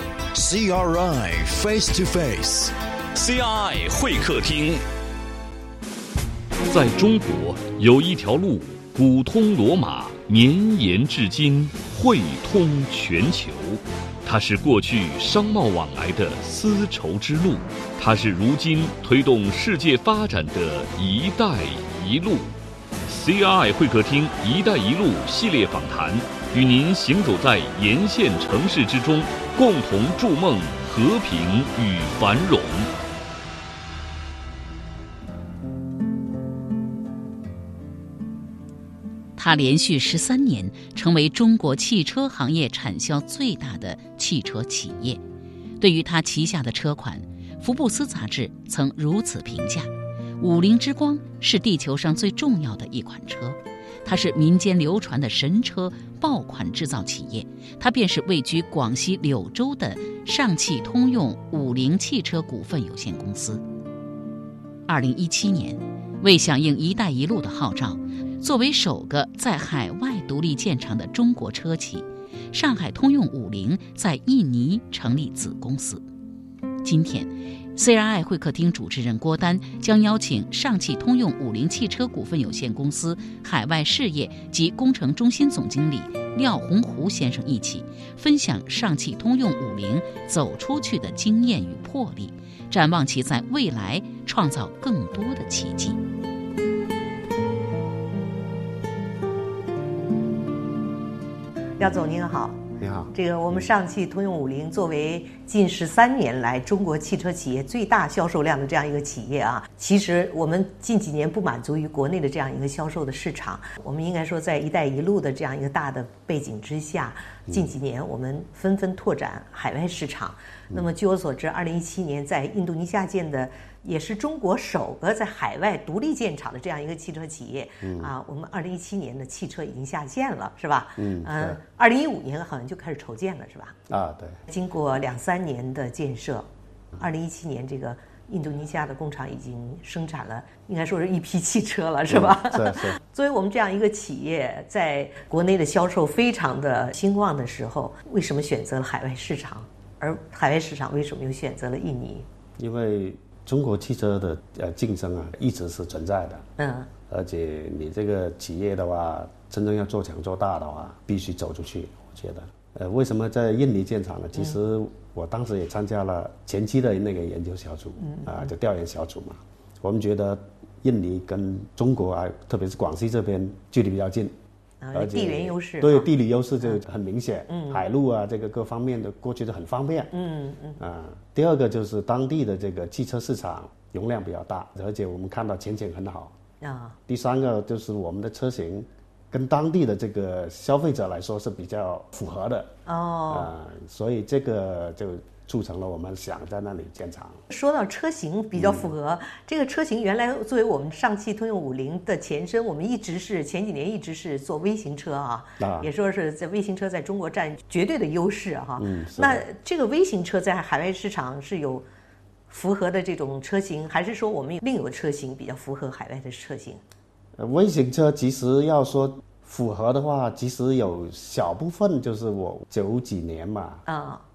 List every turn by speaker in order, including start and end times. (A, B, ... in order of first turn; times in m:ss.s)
0:00.4-0:02.4 A
0:02.4-0:04.8 B
0:06.6-0:22.5 B
0:23.1-0:32.9 B
0:39.4-0:45.2 C
0:45.8-1:03.6 C
1:04.9-1:16.0 C
1:16.8-1:36.0 C
1:41.8-1:42.6 D
1:42.8-1:43.1 E
1:43.1-2:13.8 D
2:07.8-2:08.1 E
2:11.0-2:11.6 E
2:13.9-2:14.4 E
2:14.5-2:32.2 D
2:22.1-2:23.0 E
2:32.6-2:36.5 E
2:36.6-2:36.9 D
2:37.1-2:54.3 E
2:48.0-2:48.4 D
2:54.8-2:56.1 D
2:54.9-3:00.1 E
2:57.5-2:57.8 D
3:00.1-3:00.8 D
3:00.8-3:06.3 E
3:06.6-3:07.0 D
3:07.1-3:12.7 E
3:12.8-3:13.5 D
3:13.3-3:17.4 E
3:17.5-3:31.8 D
3:18.6-3:18.9 E
3:25.6-3:25.9 E
3:28.8-3:29.4 E
3:32.5-3:36.8 D
3:37.4-3:43.8 E
3:43.8-3:44.2 D